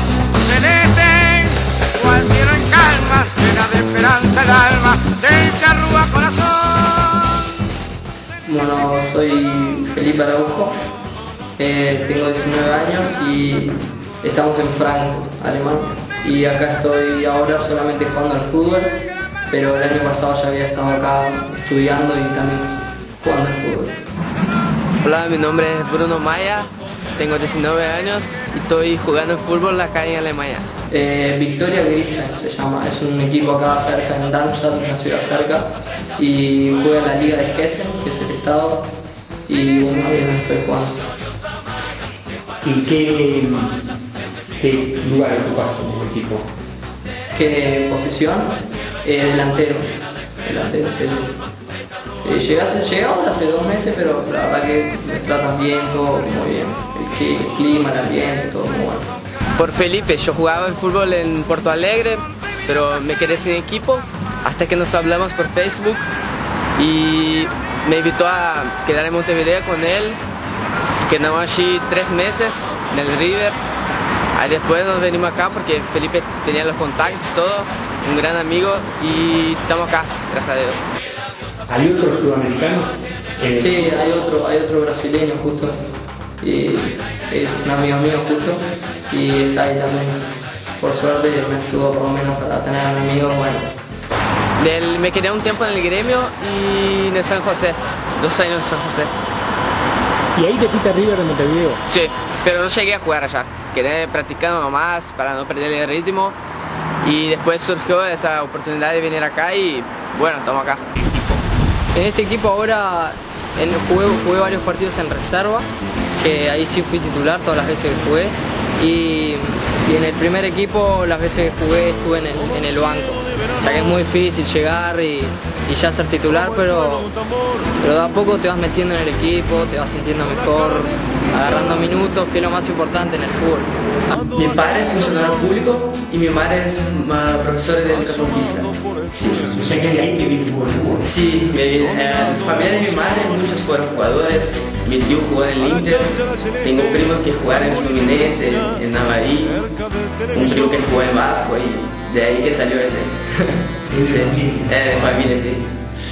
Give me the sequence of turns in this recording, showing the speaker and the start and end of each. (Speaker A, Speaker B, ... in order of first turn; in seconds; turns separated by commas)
Speaker A: 0.4-7.4, Speaker B: 8.5-10.8, Speaker B: 11.6-19.0, Speaker B: 19.5-24.0, Speaker C: 25.0-30.6, Speaker B: 30.9-38.9, Speaker B: 39.5-41.0, Speaker D: 42.6-43.7, Speaker D: 44.6-46.5, Speaker B: 47.3-51.4, Speaker B: 52.2-59.1, Speaker C: 59.6-66.1, Speaker C: 66.8-70.2, Speaker C: 71.0-73.6, Speaker C: 74.3-80.8, Speaker D: 81.7-83.9, Speaker B: 83.5-85.8, Speaker B: 86.4-93.7, Speaker C: 94.6-99.1, Speaker D: 100.3-101.8, Speaker C: 101.9-106.4, Speaker C: 107.0-110.8, Speaker D: 111.1-111.4, Speaker B: 111.9-127.1, Speaker B: 127.8-133.8, Speaker C: 134.3-139.5, Speaker D: 139.4-141.1, Speaker C: 141.0-149.6, Speaker C: 150.3-153.1, Speaker D: 153.9-154.7, Speaker C: 154.1-155.7